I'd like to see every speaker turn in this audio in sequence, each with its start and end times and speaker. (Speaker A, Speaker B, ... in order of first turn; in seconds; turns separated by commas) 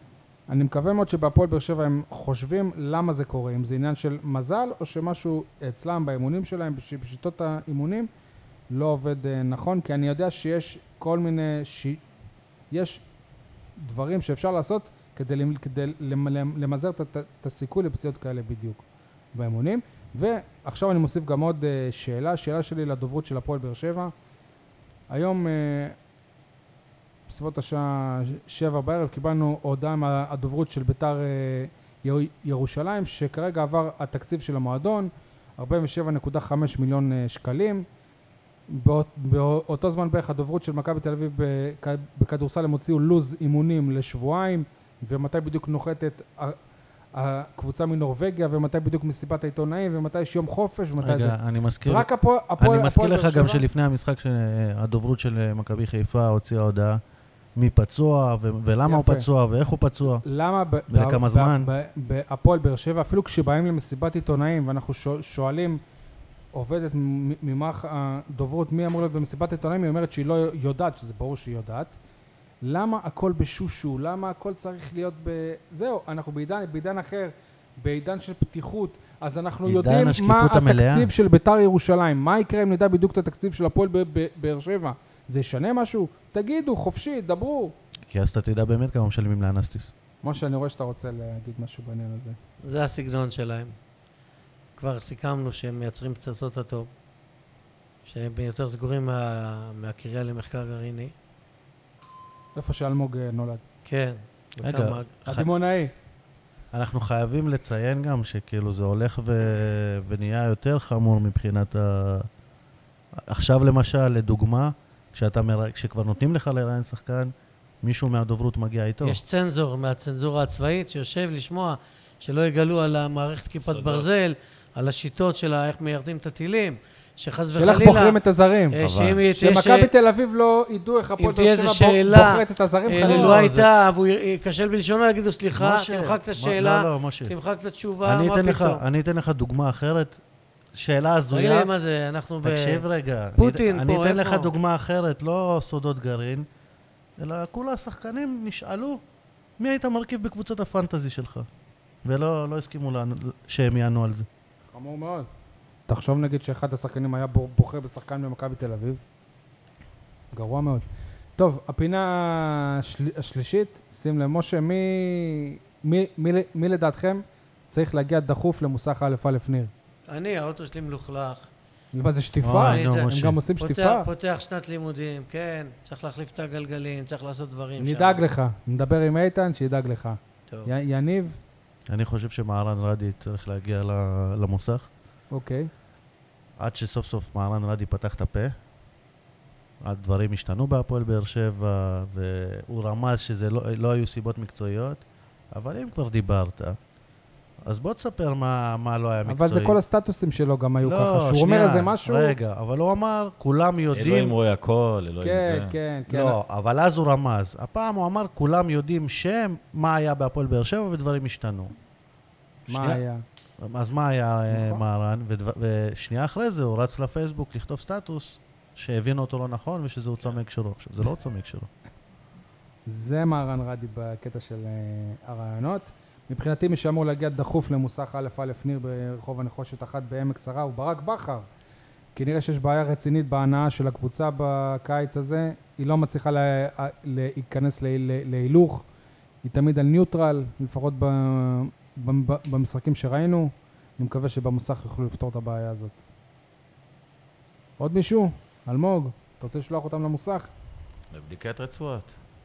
Speaker A: 0.5-8.1, Speaker A: 8.7-12.0, Speaker A: 12.7-13.0, Speaker A: 13.8-24.1, Speaker A: 25.1-25.9, Speaker A: 27.3-37.8, Speaker A: 38.7-46.6, Speaker A: 47.1-53.6, Speaker B: 51.0-57.0, Speaker B: 57.5-60.2, Speaker A: 58.9-59.2, Speaker A: 60.2-65.8, Speaker B: 60.9-61.7, Speaker A: 66.5-72.0, Speaker A: 72.6-87.7, Speaker B: 79.6-81.1, Speaker B: 88.1-89.9, Speaker A: 90.2-92.4, Speaker C: 92.6-93.7, Speaker C: 94.8-96.9, Speaker C: 98.0-101.1, Speaker A: 102.5-103.6, Speaker C: 103.8-105.4, Speaker B: 104.6-105.4, Speaker A: 105.3-105.9, Speaker B: 106.7-112.3, Speaker B: 113.2-119.2, Speaker C: 119.0-128.2, Speaker D: 123.6-124.1, Speaker A: 127.5-128.8, Speaker C: 128.7-129.9, Speaker D: 128.8-129.2, Speaker A: 129.3-133.4, Speaker C: 131.2-138.8, Speaker B: 133.0-133.7, Speaker B: 135.5-137.3, Speaker B: 138.0-140.2, Speaker B: 140.7-141.7, Speaker C: 141.3-142.8, Speaker B: 142.4-146.5, Speaker C: 143.4-144.5, Speaker B: 147.2-149.0, Speaker B: 149.6-151.5, Speaker B: 152.0-154.3, Speaker A: 154.7-155.3, Speaker A: 155.9-159.0, Speaker A: 160.3-160.8, Speaker A: 161.4-169.7, Speaker C: 170.1-171.5, Speaker A: 171.9-174.1, Speaker B: 172.4-173.4, Speaker C: 172.5-178.2, Speaker A: 177.8-181.4, Speaker B: 181.9-184.9, Speaker A: 185.3-185.7, Speaker B: 186.6-188.5, Speaker B: 189.8-196.8, Speaker B: 197.7-199.8, Speaker A: 199.3-202.3, Speaker B: 200.8-204.3, Speaker D: 203.9-205.8, Speaker A: 205.2-206.4, Speaker B: 206.1-211.7, Speaker B: 212.7-213.0, Speaker A: 212.7-213.2, Speaker B: 213.6-221.7, Speaker A: 214.5-214.8, Speaker A: 222.9-231.4, Speaker A: 232.2-238.8, Speaker A: 239.4-246.0, Speaker A: 247.8-250.5, Speaker D: 251.1-252.1